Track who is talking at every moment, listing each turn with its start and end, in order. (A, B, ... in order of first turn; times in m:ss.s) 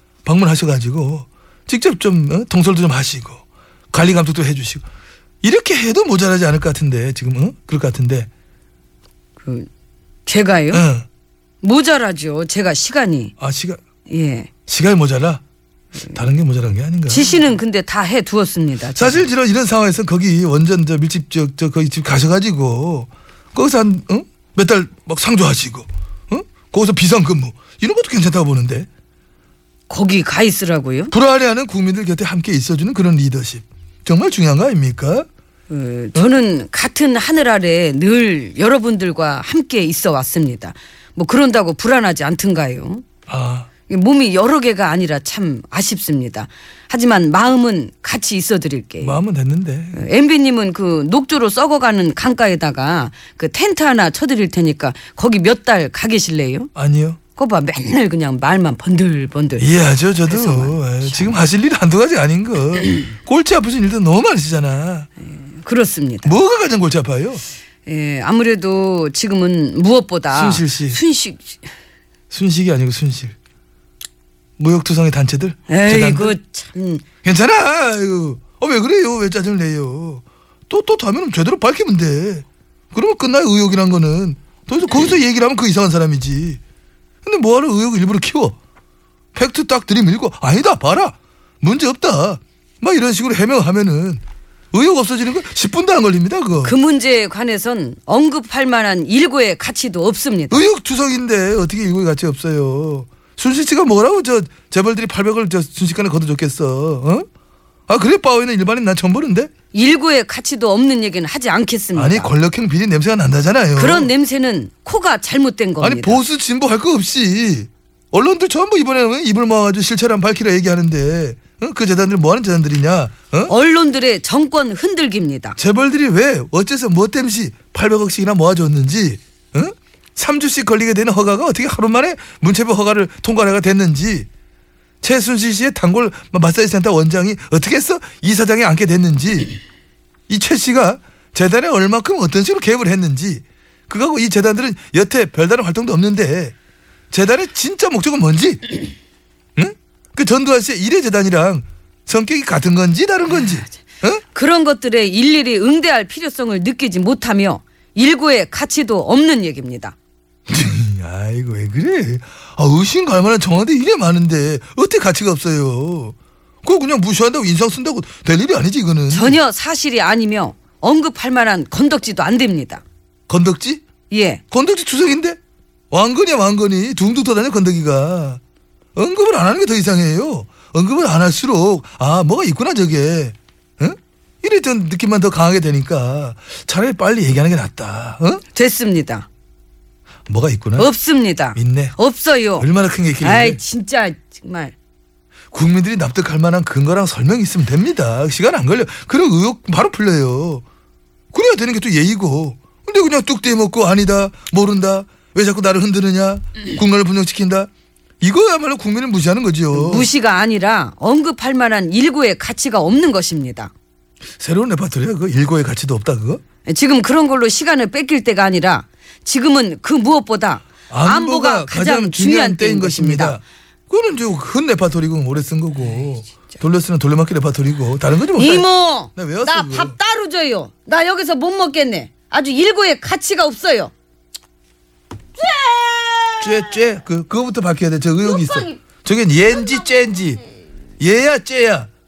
0:00.2-0:04.8 A
0:05.4-0:08.3 A
0:09.4-0:09.7 B
0:10.2-0:10.8 B
0:10.7-0:11.1 A
0:11.6-0:13.3 B
0:13.4-0:13.8 A
0:14.1-0:14.5 B
0:14.7-0:15.4 A
0:16.1-0:17.4 A
0:17.1-0:19.2 B
0:19.0-0:28.9 A
0:29.9-0:31.1 B
0:31.1-0:35.3 A
0:35.7-0:43.0 B
0:43.3-0:43.7 A
0:43.9-0:49.2 B
0:49.0-0:50.0 A
0:49.9-0:56.7 B
0:56.8-0:57.2 A
0:57.4-0:59.7 B
0:59.6-1:05.1 A
1:00.2-1:01.4 B
1:05.2-1:06.4 B
1:06.2-1:07.4 A
1:07.9-1:11.6 B
1:10.3-1:11.0 A
1:12.3-1:13.4 A
1:14.6-1:16.4 A
1:15.7-1:17.0 B
1:17.2-1:26.6 A
1:27.2-1:28.6 A
1:29.4-1:36.7 A
1:36.6-1:40.7 B
1:40.5-1:47.2 A
1:47.9-1:49.5 A
1:49.7-1:52.3 B
1:51.9-1:54.1 A
1:53.8-1:56.2 B
1:55.8-2:03.5 A
2:03.5-2:05.6 B
2:05.6-2:14.3 A
2:15.0-2:19.6 A
2:20.3-2:26.6 A
2:27.1-2:28.7 A
2:29.6-2:34.2 A
2:34.3-2:39.9 B
2:40.5-2:49.4 A
2:49.1-2:52.8 B
2:53.3-2:53.8 A
2:54.1-2:54.4 B
2:54.5-2:55.4 A
2:55.9-2:58.4 A
2:59.0-3:08.4 A
3:08.5-3:09.2 B
3:10.3-3:10.9 A
3:10.8-3:12.7 B
3:11.6-3:11.9 A
3:12.6-3:13.6 A
3:13.2-3:14.7 B
3:15.5-3:20.6 A
3:21.3-3:27.7 A
3:28.2-3:30.1 A
3:29.7-3:33.7 B
3:34.4-3:36.4 A
3:36.6-3:43.4 B
3:40.9-3:49.9 A
3:48.3-3:53.9 B
3:55.4-3:56.8 B
3:56.4-4:00.4 A
3:58.2-3:58.8 B
4:01.0-4:01.9 A